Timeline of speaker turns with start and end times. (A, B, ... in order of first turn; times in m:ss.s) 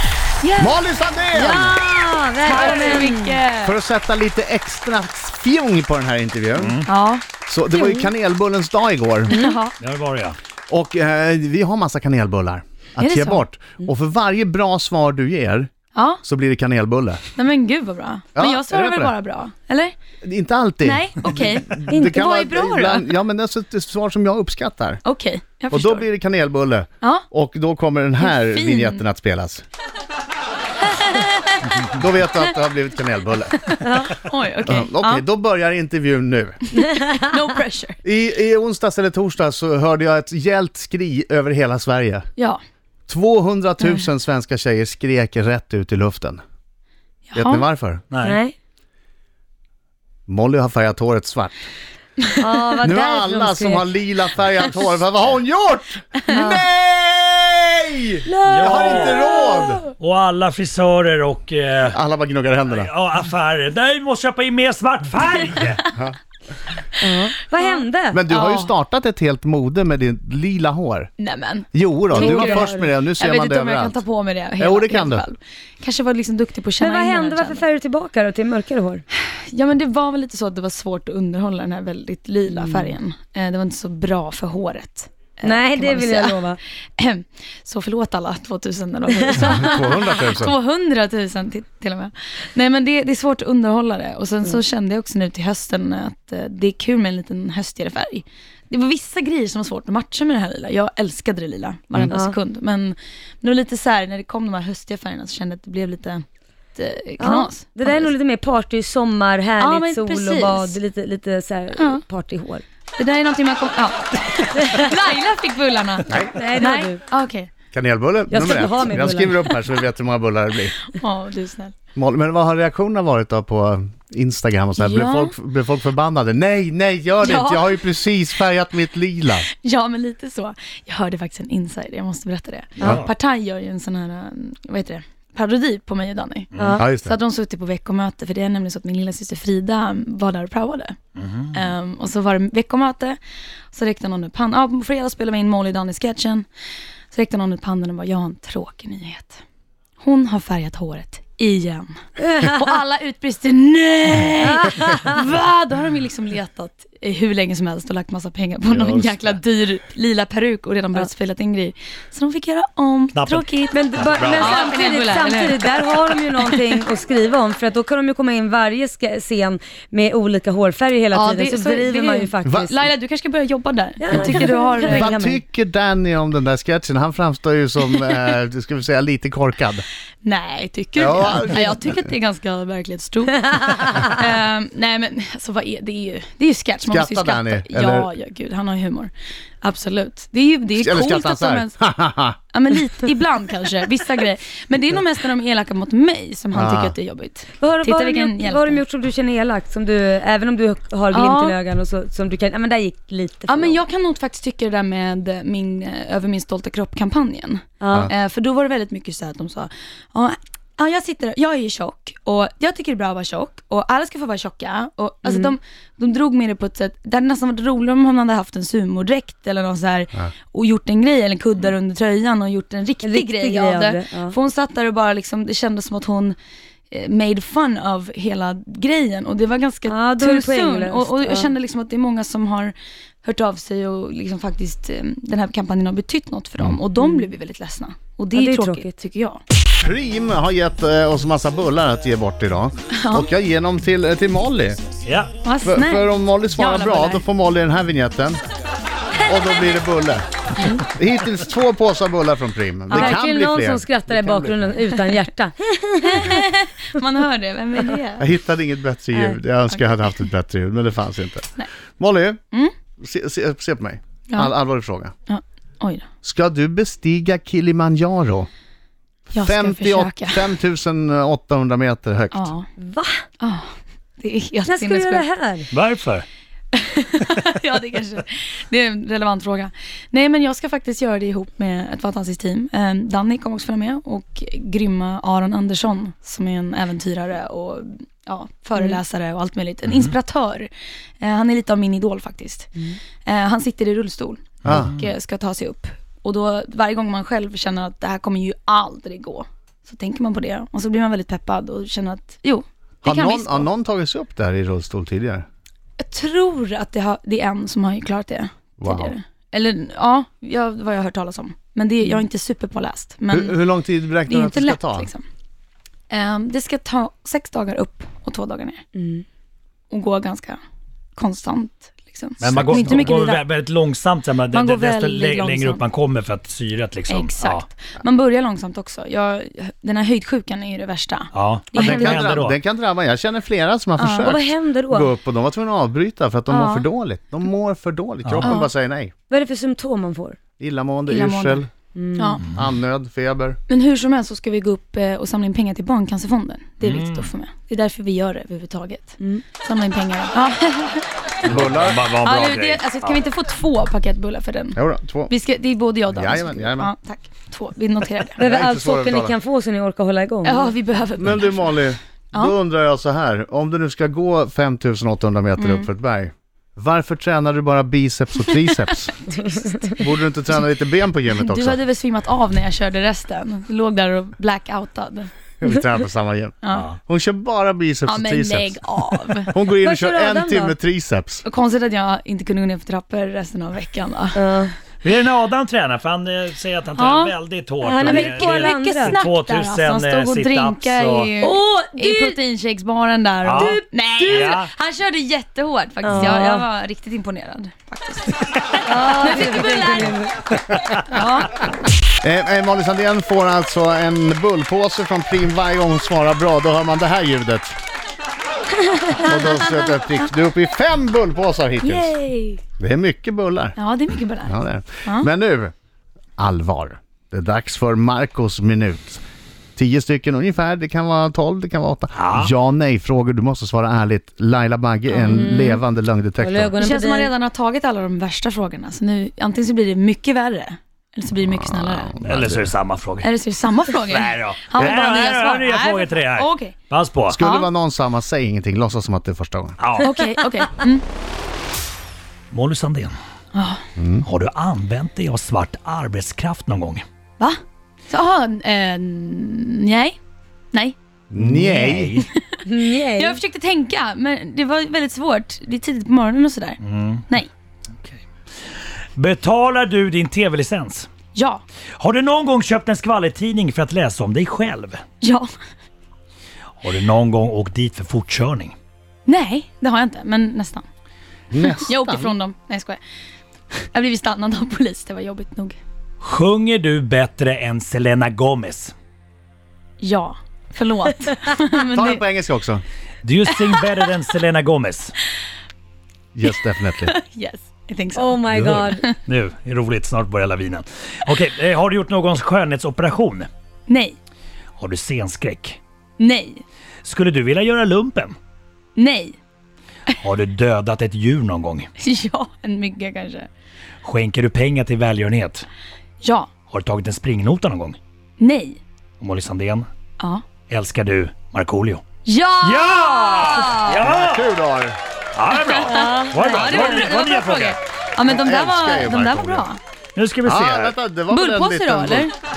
0:00.4-0:00.8 A
0:00.6-0:01.7 B
0:01.3-0:03.4 C
0:02.4-0:03.8 A
0:02.5-0:03.0 B
0:03.6-0:06.8 B
0:06.6-0:06.9 D
0:06.8-0:07.2 A
0:07.4-0:09.3 B
0:07.8-0:08.1 C
0:09.3-0:09.7 A
0:09.3-0:09.6 C
0:09.8-0:10.4 D
0:10.7-0:15.7 B
0:13.0-0:13.4 A
0:15.9-0:16.2 A
0:16.2-0:17.2 B
0:17.4-0:19.9 A
0:18.4-0:19.1 B
0:20.2-0:25.0 B
0:20.8-0:23.1 A
0:21.9-0:22.2 C
0:25.0-0:26.1 A
0:25.7-0:29.6 B
0:28.2-0:29.0 A
0:30.8-0:31.9 A
0:31.8-0:33.8 B
0:33.6-0:35.2 A
0:34.6-0:36.6 B
0:36.8-0:37.3 C
0:36.8-0:38.0 A
0:38.0-0:42.2 B
0:43.1-0:46.4 B
0:47.3-0:47.6 A
0:47.3-0:48.0 B
0:48.1-0:48.4 D
0:48.2-0:48.5 C
0:50.3-0:51.6 B
0:52.2-0:52.6 A
0:52.4-0:53.9 C
0:52.8-0:59.8 B
0:56.3-0:56.6 A
0:56.3-0:56.6 C
0:58.2-0:59.8 C
0:58.4-0:59.2 D
1:00.0-1:02.0 D
1:01.9-1:02.9 B
1:02.7-1:05.9 D
1:07.0-1:08.2 C
1:07.6-1:08.7 A
1:08.1-1:11.1 B
1:11.2-1:17.6 A
1:11.7-1:14.0 B
1:12.1-1:12.9 C
1:14.6-1:15.2 B
1:16.8-1:19.0 C
1:19.2-1:26.4 A
1:22.5-1:22.9 C
1:25.4-1:26.6 C
1:27.0-1:48.1 A
1:29.4-1:30.5 B
1:42.1-1:42.4 C
1:47.2-1:52.6 C
1:49.6-1:50.8 A
1:51.8-1:52.0 A
1:53.0-1:57.5 A
1:56.1-1:56.4 B
1:56.3-1:57.0 C
1:57.7-2:00.8 B
1:58.3-1:59.6 C
2:00.9-2:01.7 A
2:02.0-2:09.5 B
2:04.8-2:05.3 A
2:07.2-2:07.7 A
2:09.5-2:21.0 A
2:12.8-2:13.1 D
2:16.5-2:16.8 D
2:16.6-2:16.8 C
2:16.8-2:17.2 B
2:21.2-2:21.5 D
2:21.5-2:23.2 A
2:23.7-2:26.5 A
2:27.1-2:29.4 A
2:30.0-2:43.8 A
2:34.4-2:35.1 C
2:38.7-2:39.2 D
2:43.1-2:43.5 D
2:43.6-2:52.7 C
2:44.0-2:44.7 D
2:44.4-2:46.7 A
2:51.1-2:55.2 A
2:54.0-2:55.4 C
2:54.8-2:59.8 B
2:57.9-2:58.3 A
3:00.2-3:11.8 A
3:01.0-3:02.0 B
3:06.8-3:08.1 B
3:10.7-3:12.4 B
3:12.5-3:18.8 A
3:16.5-3:16.9 B
3:17.6-3:23.8 C
3:21.1-3:21.6 A
3:23.5-3:46.4 A
3:27.8-3:28.1 C
3:35.2-3:35.5 C
3:43.0-3:44.4 C
3:46.9-3:59.4 A
3:49.8-3:51.5 C
3:57.0-3:57.3 C
3:58.3-3:58.9 C
3:59.8-4:04.8 B
4:02.9-4:03.3 A
4:05.0-4:05.3 D
4:05.4-4:07.2 A
4:05.6-4:08.4 B
4:09.2-4:14.6 B
4:12.9-4:13.2 A
4:12.9-4:16.4 C
4:16.0-4:18.3 A
4:18.2-4:22.4 B
4:23.0-4:25.1 B
4:25.3-4:26.1 A
4:26.2-4:28.5 B
4:29.3-4:30.5 A
4:29.3-4:32.5 B
4:32.3-4:32.7 A
4:32.8-4:33.2 C
4:33.4-4:35.2 A
4:34.6-4:35.7 C
4:35.7-4:36.2 D
4:36.7-4:52.7 A
4:53.2-5:03.7 A
4:54.6-4:54.9 B
5:03.0-5:05.4 B
5:06.0-5:13.6 A
5:08.8-5:09.2 B
5:13.3-5:15.1 B
5:14.2-5:15.2 A
5:16.1-5:18.8 A
5:18.9-5:19.2 C
5:19.9-5:20.6 A
5:21.2-5:23.4 A
5:22.4-5:27.6 D
5:24.5-5:25.8 A
5:27.1-5:32.2 A
5:31.3-5:32.6 D
5:31.7-5:39.1 B
5:34.0-5:34.4 A
5:34.2-5:35.1 C
5:36.5-5:36.9 A
5:38.2-5:38.5 D
5:38.4-5:38.7 A
5:39.3-5:40.4 C
5:40.6-5:41.7 B
5:41.1-5:41.6 A
5:41.9-5:42.4 C
5:42.2-5:42.4 A
5:42.5-5:43.6 B
5:43.7-5:51.3 A
5:46.8-5:47.3 D
5:49.2-5:49.4 C
5:51.4-5:53.2 D
5:51.4-5:52.0 B
5:52.1-5:58.4 A
5:54.7-5:55.3 B
5:56.1-5:56.9 B
5:58.4-5:59.4 B
5:58.4-6:00.7 C
6:00.4-6:01.8 A
6:01.2-6:09.3 B
6:05.6-6:05.9 A
6:08.5-6:08.9 A
6:09.9-6:11.8 B
6:11.3-6:15.3 A
6:15.6-6:18.8 B
6:16.6-6:16.9 A
6:18.0-6:19.5 A
6:19.4-6:21.4 B
6:19.8-6:20.7 C
6:21.4-6:24.4 A
6:24.3-6:24.7 C
6:25.0-6:31.3 D
6:27.0-6:27.3 A
6:27.8-6:29.2 C
6:28.0-6:40.2 A
6:31.4-6:32.4 C
6:33.4-6:34.7 D
6:33.6-6:34.3 C
6:36.0-6:36.6 C
6:38.8-6:40.4 C
6:41.1-6:41.6 A
6:42.2-6:47.8 B
6:49.1-6:49.6 A
6:49.1-6:52.1 B
6:51.8-6:52.6 A
6:52.8-6:53.8 B
6:53.8-6:55.3 A
6:54.4-6:55.7 B
6:56.4-6:59.2 B
6:59.8-7:06.7 B
7:02.1-7:02.5 D
7:05.2-7:05.8 C
7:06.4-7:07.3 C
7:06.8-7:12.1 A
7:11.4-7:12.7 B
7:12.2-7:13.3 D
7:13.2-7:16.7 A
7:13.9-7:17.4 D
7:17.3-7:19.8 B
7:17.4-7:17.7 A
7:19.8-7:20.2 D
7:20.0-7:21.0 A
7:22.5-7:23.1 D
7:23.5-7:23.8 A
7:24.0-7:24.2 B
7:24.2-7:27.0 D
7:27.4-7:30.2 A
7:31.3-7:32.2 B
7:31.3-7:32.2 D
7:32.1-7:32.6 A
7:32.6-7:33.4 C
7:33.1-7:37.5 A
7:36.8-7:37.2 D
7:39.2-7:41.1 D
7:41.3-7:41.6 A
7:42.0-7:45.0 D
7:45.2-7:45.5 A
7:46.8-7:48.8 D
7:49.2-7:50.8 A
7:51.5-7:52.3 B
7:51.8-7:53.0 A
7:53.9-7:55.8 A
7:56.2-7:58.9 D
8:00.0-8:02.2 A
8:01.9-8:02.8 B
8:03.2-8:05.1 D
8:06.3-8:07.1 B
8:07.0-8:08.4 A
8:08.1-8:09.1 C
8:08.5-8:13.5 D
8:13.9-8:14.2 A
8:14.8-8:15.8 D
8:16.2-8:16.6 A
8:17.0-8:18.4 D
8:19.0-8:19.4 A
8:20.2-8:21.9 D
8:22.0-8:23.5 A
8:24.0-8:25.6 D
8:26.2-8:26.5 A
8:26.7-8:28.0 D
8:28.4-8:28.8 A
8:29.2-8:29.9 D
8:30.2-8:30.4 A
8:30.7-8:32.0 D
8:32.2-8:34.0 A
8:32.6-8:34.5 D
8:34.0-8:35.0 B
8:35.3-8:37.8 D
8:35.7-8:39.8 A
8:35.9-8:36.7 C
8:38.2-8:39.7 B
8:40.2-8:41.0 D
8:40.4-8:42.3 B
8:41.3-8:42.3 A